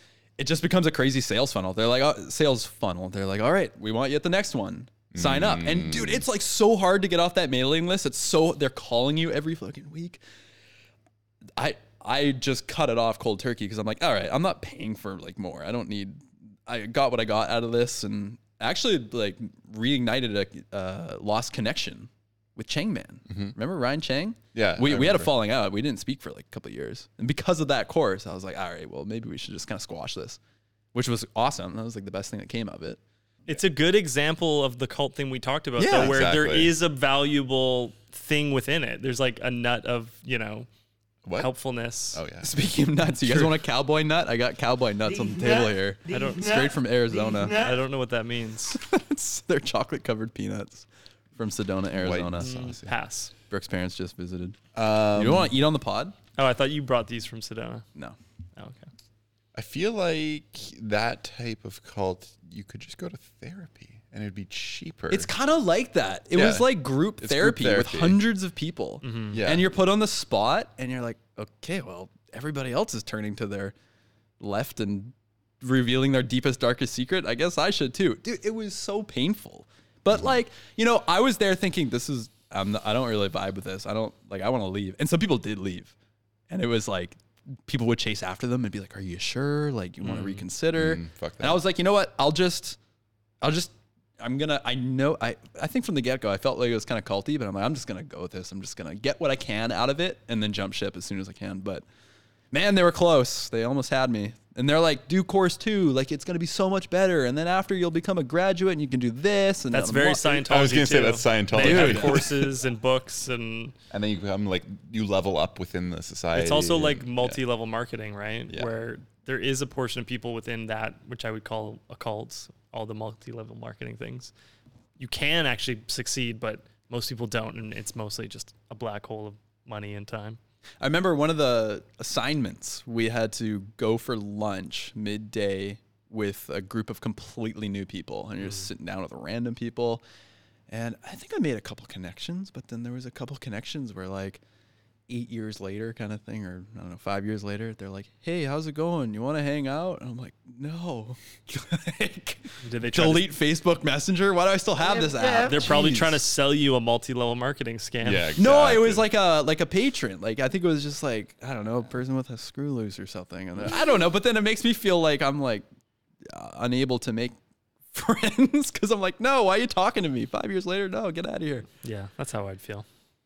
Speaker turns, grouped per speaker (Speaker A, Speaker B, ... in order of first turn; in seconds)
Speaker A: 0.4-10.2, 11.6-30.4, 30.9-33.0, 35.8-36.2, 42.4-47.7, 48.8-52.5, 53.5-56.1, 65.1-73.7, 74.4-86.0, 86.5-92.8, 93.4-101.8, 102.5-110.4, 111.6-112.2, 130.8-140.0, 140.7-144.4, 145.1-156.2, 158.4-165.7, 166.2-167.4, 167.9-171.7
Speaker B: 5.1-6.2, 23.3-23.6, 24.5-25.3, 35.9-36.8, 41.2-41.5, 42.1-42.7, 43.2-43.5, 51.9-53.0, 54.8-55.5, 59.5-65.3, 66.3-68.2, 69.3-69.7, 90.7-91.6, 110.4-112.5, 113.9-117.4, 158.0-159.1
Speaker C: 33.5-40.7, 41.4-42.2, 46.1-46.7, 47.5-48.8, 52.4-53.3, 56.4-57.9, 58.6-58.9, 69.0-69.4, 90.0-90.4, 109.7-113.8, 116.3-124.3, 125.0-130.4, 152.6-153.3, 155.4-158.3, 171.8-172.9